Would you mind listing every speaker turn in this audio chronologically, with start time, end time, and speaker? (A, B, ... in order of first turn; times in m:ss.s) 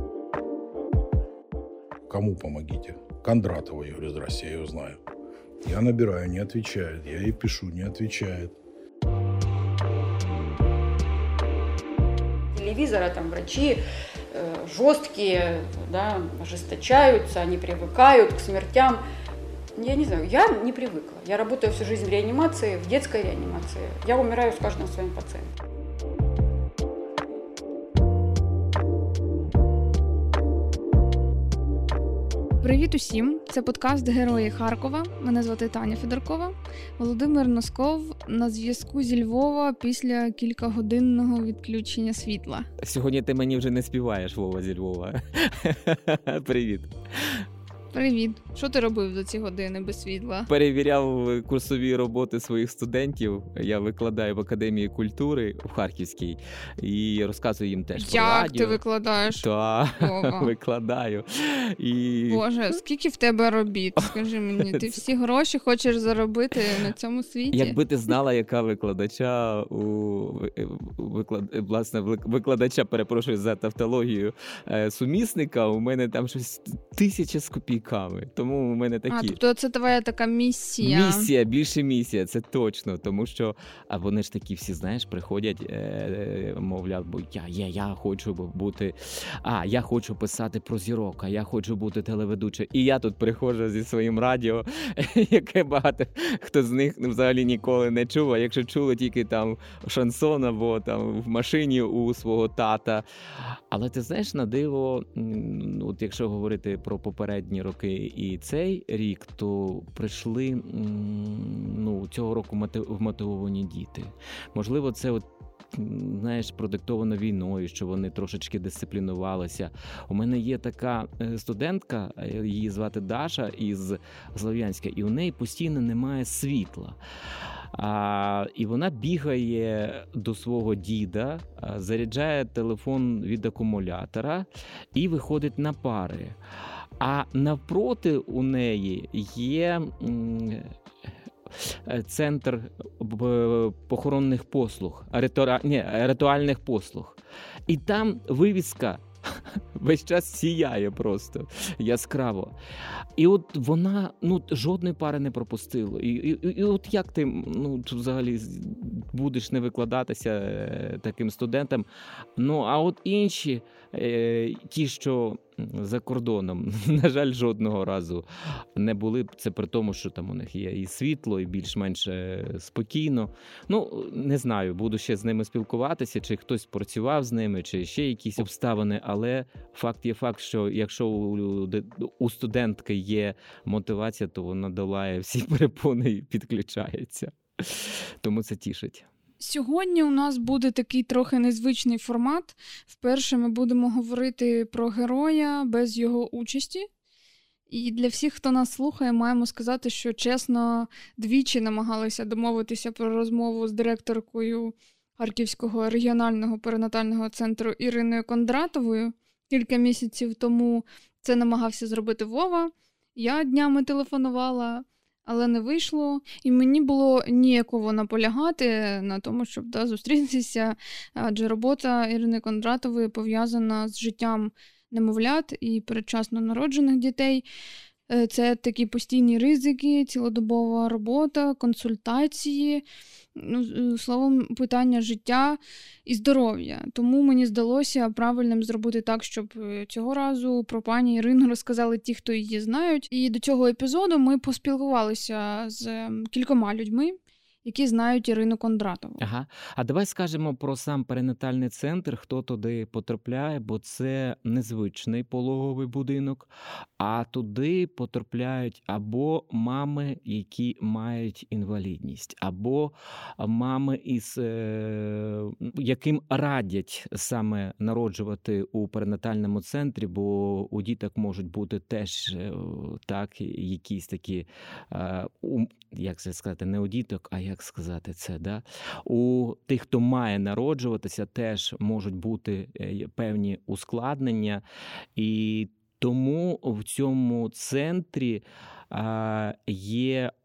0:02.1-0:05.0 A
0:05.6-0:08.5 A
0:12.5-0:19.0 B
0:19.8-0:25.5 B
0:32.6-0:42.7 C
0:42.8-0:47.5 D
0:47.9-0:50.5 C
0:50.5-0:58.8 D
0:58.0-0:59.4 C
0:59.3-1:02.4 D
1:00.0-1:00.5 C
1:02.3-1:07.8 C
1:07.5-1:19.4 D
1:19.1-1:21.3 C
1:20.8-2:07.0 D
2:07.7-2:16.4 D
2:17.0-2:20.7 D
2:21.5-2:32.5 D
2:33.2-2:41.8 D
2:42.4-3:09.1 D
3:09.4-3:16.9 C
3:17.7-3:47.4 C
3:48.1-3:52.8 C
3:53.4-4:09.2 C
4:09.2-4:44.6 D
4:45.2-4:50.3 D